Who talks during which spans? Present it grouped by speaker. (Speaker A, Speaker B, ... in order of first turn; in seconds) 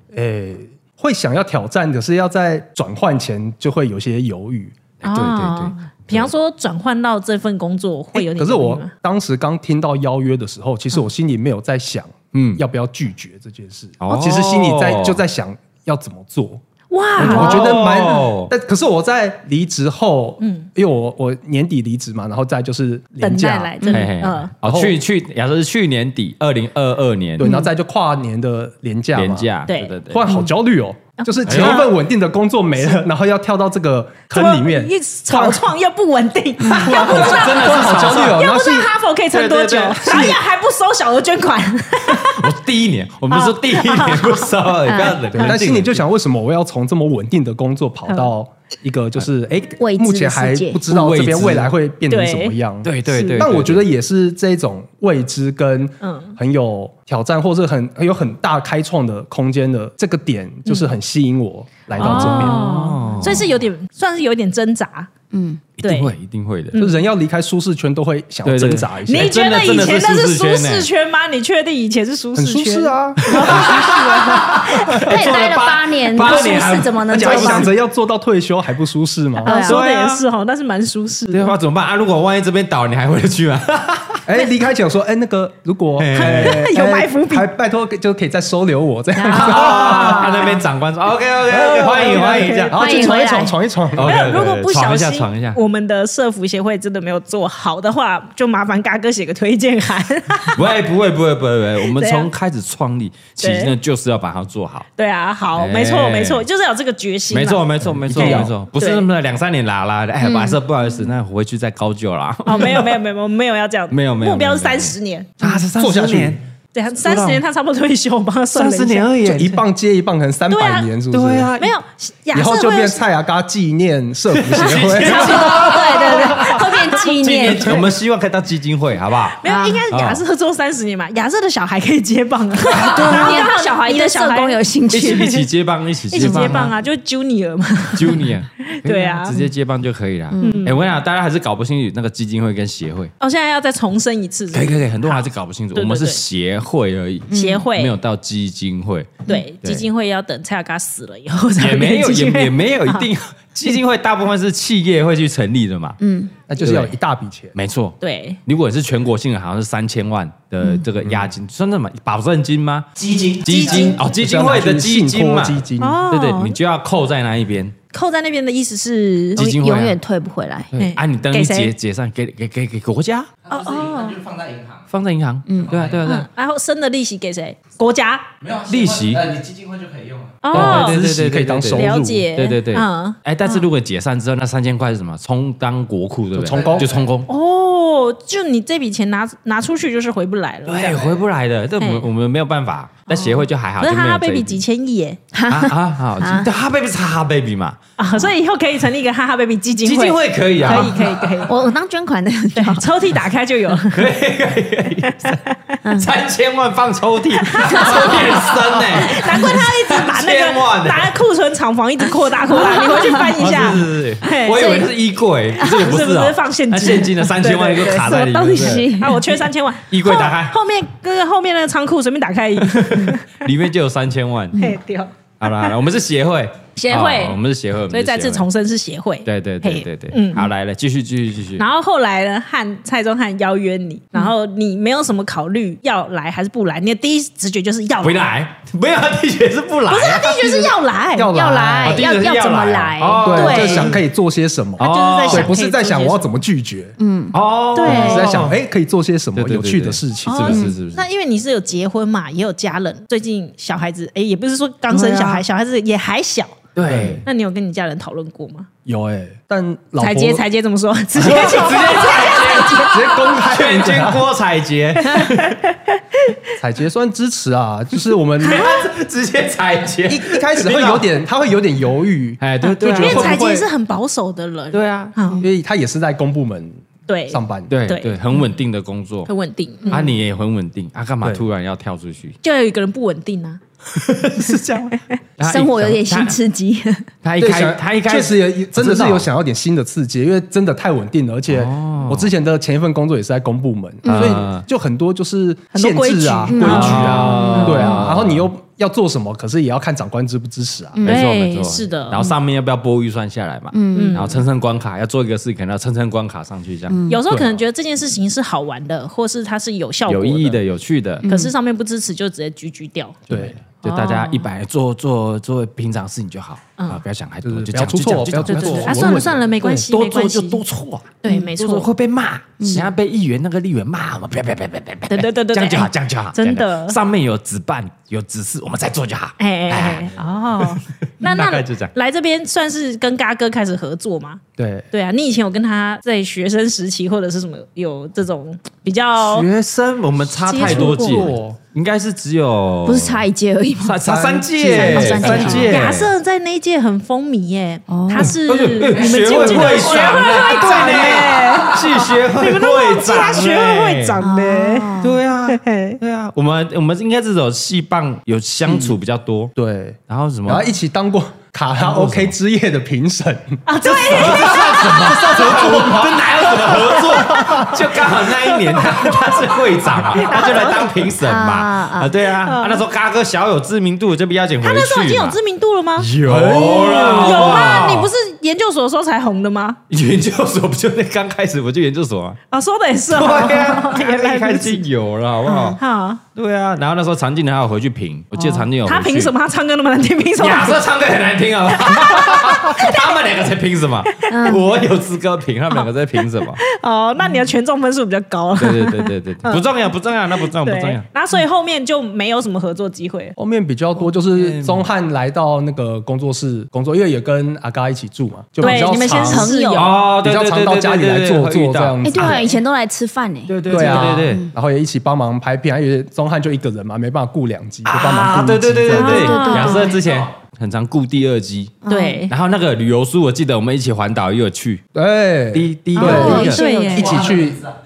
Speaker A: 0.1-4.8, 8.1-16.6, 17.2-23.9, 24.6-25.0, 27.4-29.5, 30.0-35.7, 36.6-38.9, 40.0-40.4, 45.3-62.7, 66.8-69.4, 72.4-75.0, 77.1-79.5, 84.3-90.5, 91.5-94.2, 107.9-108.5, 115.4-116.4, 119.2-121.5, 122.3-125.5, 156.5-157.6, 164.0-166.0, 180.5-182.2, 186.3-186.9, 241.2-242.0, 243.2-247.0, 247.8-250.6, 256.9-257.2, 258.9-260.4, 262.8-264.2, 266.6-268.7, 270.1-273.7, 275.4-277.7, 287.4-301.0, 313.3-313.6, 317.4-319.8, 334.6-334.9, 340.5-341.6, 344.0-346.1, 350.9-351.2, 358.7-358.9, 359.6-367.8, 376.2-377.8, 403.4-409.5, 410.1-412.5, 413.7-419.5, 424.9-427.6
Speaker B: 5.0-6.3, 14.0-15.2, 17.2-18.5, 23.9-27.5, 29.1-30.2, 31.5-31.9, 36.8-38.5, 39.3-40.3, 42.1-46.0, 50.9-51.7, 52.8-53.9, 62.0-63.5, 65.8-66.8, 68.5-70.9, 73.2-77.7, 79.5-80.2, 81.3-84.2, 86.0-86.7, 89.3-93.0, 94.0-95.6, 100.5-104.9, 105.5-106.4, 107.3-112.9, 113.9-116.4, 117.0-117.4, 118.5-119.6, 121.1-121.7, 124.3-126.6, 127.2-130.2, 132.7-133.5, 134.9-136.7, 137.9-143.1, 144.5-149.8, 151.6-156.0, 156.6-156.9, 157.6-162.9, 163.4-167.8, 169.4-170.0, 170.7-173.3, 174.9-176.3, 178.7-179.3, 180.5-187.3, 190.7-194.6, 195.5-197.8, 199.8-201.4, 203.9-205.4, 205.9-211.1, 213.4-218.9, 219.9-220.6, 222.6-224.6, 225.4-228.5, 229.2-231.6, 238.0-240.6, 241.8-244.0, 244.8-245.5, 247.3-248.6, 249.3-251.0, 254.9-255.4, 256.8-257.2, 261.2-265.6, 268.4-271.1, 272.4-273.4, 274.7-275.1, 277.7-279.3, 279.9-282.4, 284.0-286.4, 287.2-289.3, 291.5-292.3, 294.1-294.7, 296.6-298.5, 301.0-307.0, 310.1-311.3, 313.3-331.9, 339.2-343.2, 343.8-346.1, 348.2-354.2, 355.0-359.5, 360.1-360.7, 361.8-362.3, 363.8-375.4, 376.0-378.1, 379.9-382.4, 383.1-385.8, 386.4-389.3, 390.4-396.6, 398.6-401.1, 404.3-404.9, 409.7-412.4, 413.5-414.5, 417.9-424.8, 425.5-426.6
Speaker C: 5.0-8.9, 16.9-17.9, 20.4-20.7, 23.2-24.5, 29.7-30.0, 31.2-32.0, 34.3-42.5, 43.3-44.5, 48.1-48.3, 52.1-52.6, 53.1-53.4, 56.0-56.4, 60.7-60.9, 62.0-65.1, 65.8-66.1, 66.7-67.1, 69.1-75.0, 79.4-81.6, 86.1-87.5, 89.3-90.3, 91.8-93.3, 94.0-100.7, 101.8-102.3, 103.4-103.7, 105.0-109.1, 112.5-115.4, 116.7-119.2, 120.5-120.9, 121.6-123.0, 124.9-127.8, 129.4-135.5, 136.1-139.4, 140.4-140.9, 143.2-146.2, 147.3-147.9, 149.3-153.1, 158.0-158.4, 163.5-164.0, 165.8-166.6, 167.9-169.4, 170.8-171.7, 173.5-174.2, 176.1-178.3, 180.4-181.0, 181.7-183.7, 187.3-191.2, 191.8-192.1, 193.1-195.2, 198.0-201.6, 202.5-204.1, 205.0-205.8, 207.5-208.4, 208.9-214.9, 215.6-223.4, 224.6-225.7, 226.8-227.4, 227.9-230.5, 231.6-238.3, 239.9-241.3, 243.3-244.0, 244.8-246.3, 247.8-248.4, 250.2-256.7, 257.2-258.7, 260.0-263.3, 265.0-265.8, 268.4-268.9, 272.8-275.4, 277.1-278.2, 279.3-280.1, 282.4-283.6, 295.7-298.1, 301.0-302.2, 303.9-304.4, 307.1-310.6, 311.3-313.2, 313.8-314.5, 318.5-320.6, 321.2-321.9, 325.1-327.0, 329.4-334.4, 334.9-339.5, 340.5-341.3, 345.3-355.0, 355.5-356.0, 363.7-365.9, 366.6-367.6, 370.1-370.9, 372.4-372.8, 374.6-376.1, 376.7-379.8, 382.5-384.8, 385.8-386.2, 388.4-390.8, 391.8-393.5, 394.3-394.6, 396.6-399.7, 400.4-403.4, 408.6-410.0, 418.9-420.0, 421.9-422.3, 426.0-427.2
Speaker D: 23.8-24.1, 27.4-27.7, 44.9-45.3, 49.8-50.9, 65.3-65.6, 75.0-77.7, 79.4-79.8, 89.2-90.5, 92.7-93.6, 110.2-110.6, 125.0-127.9, 129.4-129.8, 132.8-135.4, 136.2-136.7, 140.3-140.7, 147.3-147.7, 156.0-156.3, 160.6-160.9, 169.4-170.7, 175.5-175.7, 195.3-196.5, 200.7-202.9, 205.8-206.1, 207.6-208.2, 212.5-213.4, 217.9-219.5, 224.5-224.8, 241.2-243.7, 247.0-247.4, 285.4-287.1, 294.0-294.4, 296.5-298.1, 300.9-301.2, 303.7-304.4, 306.9-307.3, 311.2-311.5, 322.6-322.9, 342.9-344.0, 344.7-345.8, 347.9-348.4, 354.2-355.2, 371.2-372.1, 385.5-385.8, 394.3-394.6, 408.6-409.9, 412.0-414.5, 419.0-420.0, 421.8-422.3, 426.0-427.1
Speaker E: 163.0-164.0, 173.4-174.9, 175.6-176.1, 178.4-180.5, 186.5-187.0, 427.0-427.6